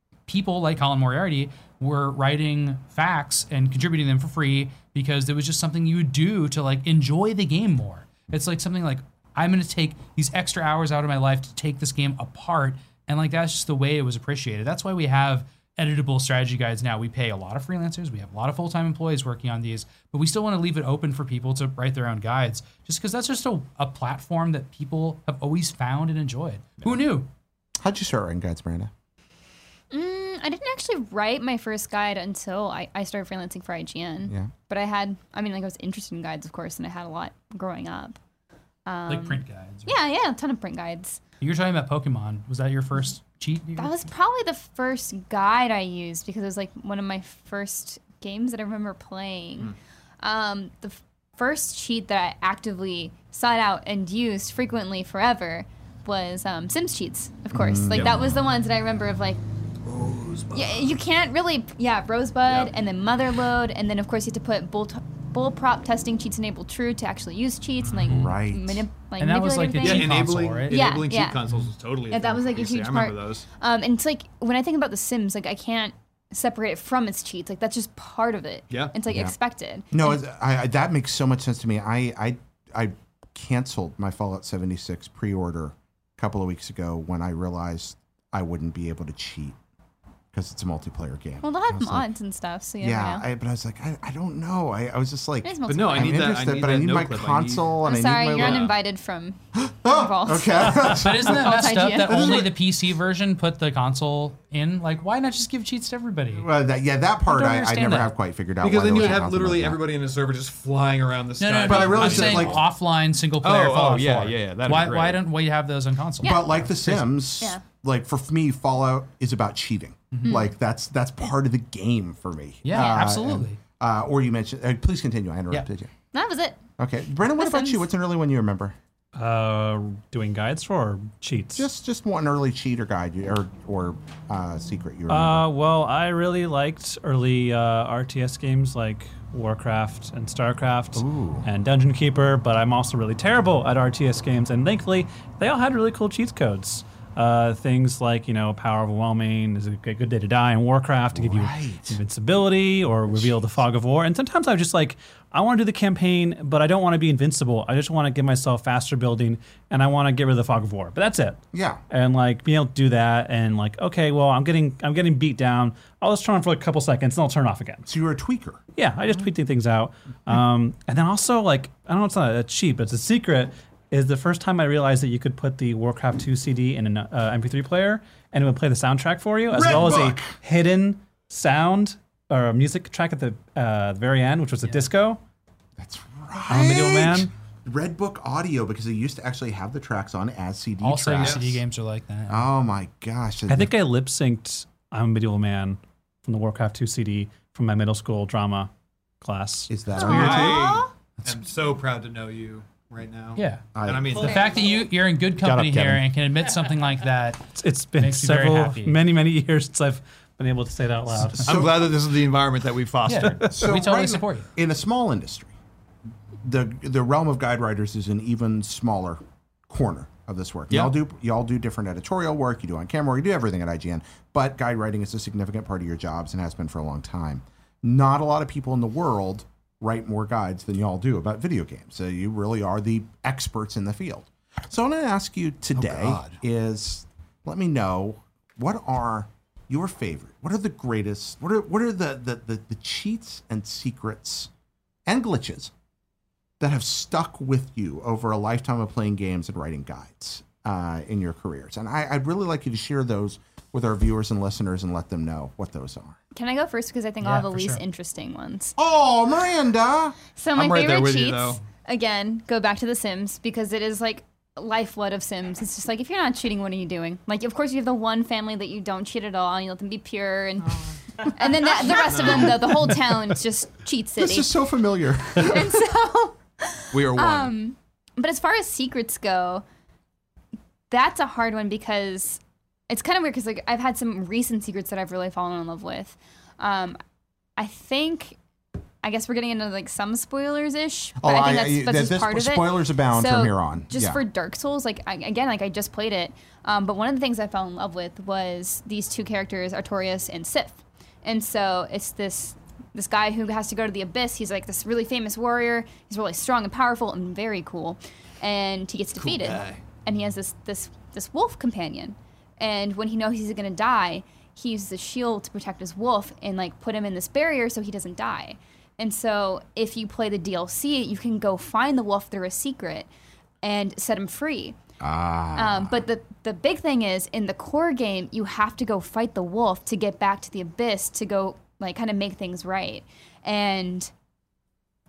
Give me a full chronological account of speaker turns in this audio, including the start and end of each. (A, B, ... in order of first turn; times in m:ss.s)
0:00.3-0:27.3 A
0:27.8-0:28.9 B
0:29.9-0:38.2 C
0:34.3-0:34.5 B
0:38.9-0:41.2 C
0:39.1-0:40.0 A
0:41.4-0:44.1 A
0:43.8-0:59.4 C
0:57.5-0:58.4 B
0:59.9-1:01.0 D
1:00.5-1:11.4 C
1:02.5-1:02.7 D
1:08.1-1:08.9 B
1:09.2-1:10.9 A
1:09.8-1:13.5 D
1:12.1-1:20.2 C
1:19.1-1:19.4 B
1:19.9-1:29.6 B
1:30.3-1:32.1 B
1:31.4-1:33.2 C
1:32.8-1:38.7 B
1:35.4-1:36.4 C
1:35.6-1:37.7 D
1:37.8-1:42.5 C
1:38.3-1:38.8 D
1:39.6-1:42.6 B
1:40.8-1:46.5 A
1:46.3-1:49.8 B
1:47.3-1:48.1 A
1:48.6-1:52.6 D
1:51.4-1:57.0 A
1:51.6-1:52.6 B
1:53.4-1:55.2 D
1:56.2-2:05.9 B
2:00.1-2:00.4 A
2:02.6-2:03.6 A
2:02.7-2:03.0 C
2:06.1-2:06.6 C
2:06.8-2:08.8 B
2:07.4-2:07.8 C
2:09.2-2:11.7 E
2:11.6-2:15.5 B
2:15.1-2:47.9 E
2:21.0-2:21.5 B
2:31.1-2:32.0 B
2:33.1-2:33.4 B
2:41.5-2:41.8 B
2:47.9-2:48.6 B
2:48.8-3:05.2 E
2:59.5-3:00.4 B
3:04.6-3:04.9 A
3:05.8-3:11.6 B
3:06.5-3:07.3 E
3:10.8-3:12.5 A
3:11.2-3:11.5 D
3:12.3-3:13.7 B
3:13.5-3:18.7 E
3:19.2-3:19.7 E
3:19.7-3:20.8 B
3:20.0-3:24.5 D
3:20.0-3:20.9 C
3:20.1-3:20.6 A
3:23.4-3:23.6 A
3:23.8-3:24.4 B
3:24.2-3:27.4 A
3:25.4-3:26.0 B
3:27.6-3:31.6 E
3:28.0-3:29.0 A
3:31.2-3:31.5 A
3:31.5-3:31.9 B
3:31.5-3:33.5 D
3:33.1-3:34.5 A
3:33.4-3:35.5 B
3:36.4-4:04.5 B
3:40.7-3:41.0 D
3:55.8-3:56.4 D
4:05.1-4:05.7 B
4:06.6-4:16.2 B
4:16.3-4:18.8 C
4:17.2-4:17.8 A
4:18.8-4:20.2 B
4:20.4-4:34.5 C
4:20.6-4:21.6 D
4:31.9-4:32.7 D
4:34.2-4:35.8 B
4:35.3-4:39.6 C
4:36.9-4:37.6 D
4:40.9-4:47.0 C
4:47.6-4:48.4 C
4:49.0-5:23.1 C
4:51.2-4:54.2 B
5:09.2-5:09.8 D
5:23.6-5:24.8 C
5:25.0-5:26.1 B
5:25.6-5:34.1 C